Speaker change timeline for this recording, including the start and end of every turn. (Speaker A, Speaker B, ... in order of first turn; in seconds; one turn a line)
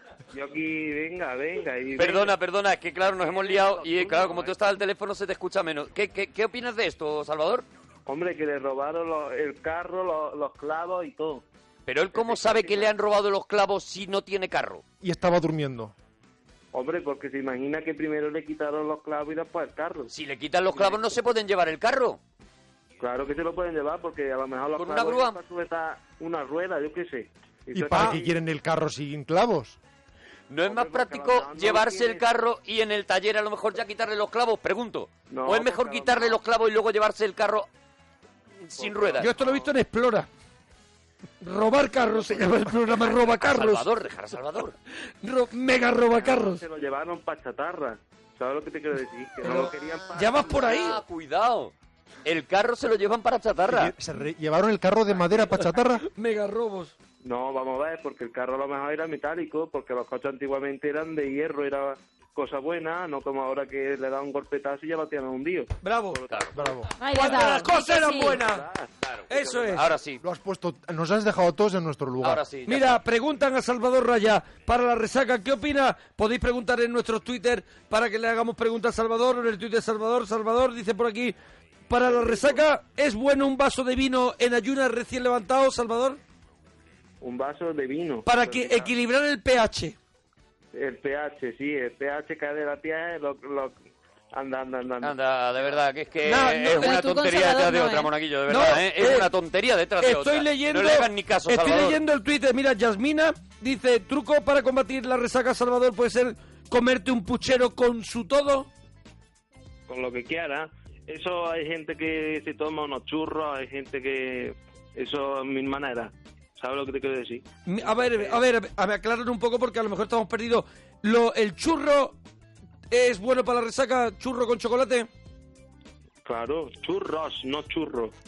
Speaker A: 0.3-2.3
Speaker B: 2.0-7.7
Speaker A: 3.2-4.7
Speaker A: 8.1-11.4
Speaker B: 11.9-14.8
Speaker A: 12.1-12.9
Speaker C: 15.0-15.9
Speaker A: 16.7-20.1
Speaker B: 20.1-22.2
Speaker A: 20.7-21.1
Speaker A: 23.0-28.4
Speaker B: 24.8-25.4
Speaker C: 27.7-29.8
Speaker B: 27.9-28.2
Speaker B: 30.5-37.7
Speaker A: 30.6-32.3
Speaker A: 35.3-36.4
Speaker B: 38.6-39.4
Speaker A: 38.8-39.7
Speaker D: 39.2-40.3
Speaker D: 41.4-43.9
Speaker A: 42.0-42.5
Speaker B: 42.9-44.8
Speaker D: 45.2-46.6
Speaker A: 46.1-50.8
Speaker D: 49.4-51.0
Speaker B: 50.4-51.7
Speaker B: 52.2-53.9
Speaker C: 53.7-56.0
Speaker D: 56.1-56.9
Speaker A: 57.2-66.8
Speaker D: 65.8-66.2
Speaker B: 66.3-66.5
Speaker C: 66.6-66.9
Speaker E: 67.0-68.5
Speaker D: 67.1-68.7
Speaker A: 67.4-69.9
Speaker B: 69.0-70.2
Speaker D: 69.3-69.8
Speaker C: 70.2-72.5
Speaker B: 72.2-73.0
Speaker D: 72.7-81.3
Speaker D: 81.9-86.2
Speaker A: 82.0-82.6
Speaker A: 87.2-88.9
Speaker D: 88.2-90.0
Speaker A: 90.8-93.8
Speaker A: 94.3-95.2
Speaker B: 95.0-102.0
Speaker D: 96.2-97.1
Speaker E: 96.7-98.1
Speaker D: 98.5-99.3
Speaker D: 100.0-108.7
Speaker A: 109.9-118.4
Speaker D: 117.7-122.2
Speaker D: 122.9-125.1
Speaker A: 126.2-128.1